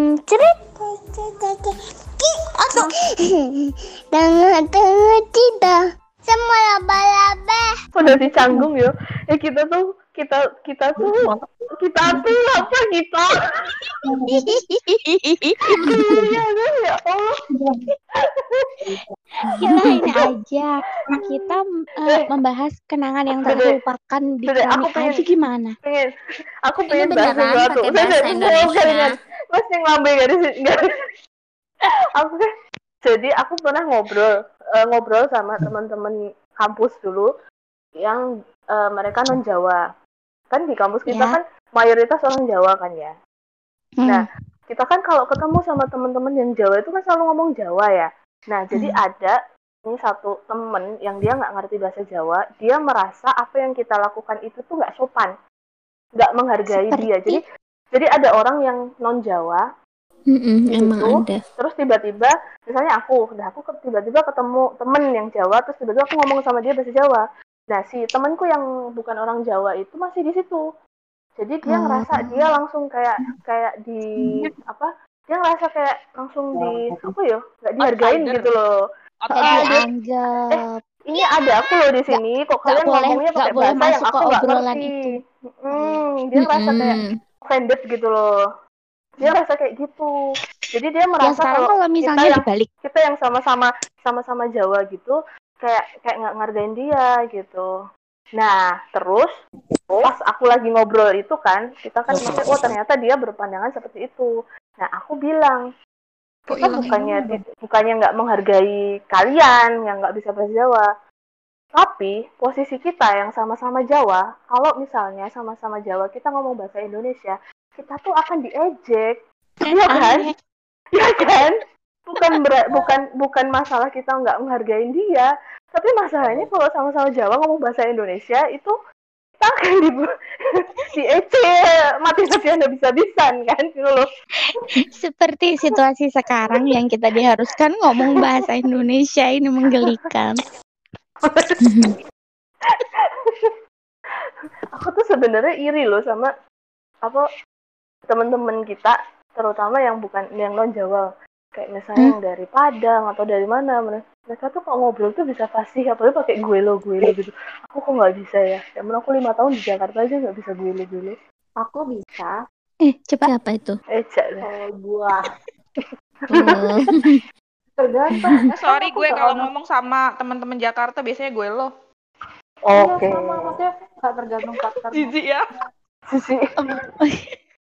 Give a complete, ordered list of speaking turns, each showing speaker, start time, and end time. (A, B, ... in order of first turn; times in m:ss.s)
0:04.5-0:05.7 A
0:06.3-0:07.6 A
0:08.0-0:11.2 B
0:11.0-0:11.4 C
0:11.8-0:13.8 B
0:12.1-0:12.6 C
0:14.0-0:14.5 C
0:14.5-0:15.9 D
0:15.8-0:17.4 B
0:15.9-0:16.3 C
0:17.5-0:17.8 C
0:18.2-0:18.7 B
0:18.8-0:20.0 C
0:19.6-0:25.8 D
0:23.4-0:23.8 B
0:24.5-0:25.2 B
0:25.8-0:26.1 B
0:26.6-0:30.9 B
0:27.2-0:28.9 E
0:28.2-0:29.1 F
0:32.2-0:32.4 B
0:33.0-0:37.3 B
0:38.0-0:39.8 B
0:40.5-0:43.1 B
0:41.1-0:41.4 D
0:44.0-0:44.2 D
0:44.1-0:49.4 B
0:49.9-0:55.3 B
0:56.2-0:57.4 B
0:56.7-0:57.4 D
0:57.9-0:59.6 B
1:00.7-1:10.6 B
1:11.4-1:18.8 B
1:11.7-1:12.5 D
1:16.6-1:17.1 C
1:17.8-1:18.6 F
1:19.2-1:19.9 F
1:19.3-1:20.8 D
1:20.6-1:25.0 B
1:22.1-1:25.2 D
1:25.6-1:28.3 B
1:26.5-1:27.0 F
1:29.2-1:30.1 B
1:30.7-1:37.7 B
1:31.2-1:32.7 D
1:38.4-1:39.3 B
1:39.9-1:45.6 B
1:42.1-1:42.7 C
1:46.5-1:50.9 B
1:46.5-1:47.4 C
1:51.7-1:59.1 B
1:59.6-2:00.3 D
1:59.6-2:00.3 B
2:01.0-2:08.7 B
2:09.4-2:10.1 B
2:10.9-2:14.1 B
2:14.8-2:20.4 D
2:21.2-2:21.6 B
2:21.6-2:21.9 D
2:24.7-2:26.3 B
2:28.1-2:41.1 B
2:41.6-2:42.4 C
2:42.8-2:43.3 D
2:43.3-2:43.7 E
2:44.0-2:44.5 B
2:44.4-2:45.2 C
2:45.8-2:46.8 B
2:47.8-2:48.5 C
2:48.6-2:51.7 F
2:49.0-2:49.4 B
2:49.0-2:49.4 C
2:52.6-2:53.6 B
2:52.7-2:55.2 C
2:54.9-2:55.5 F
2:56.1-2:56.4 B
2:56.6-2:57.4 D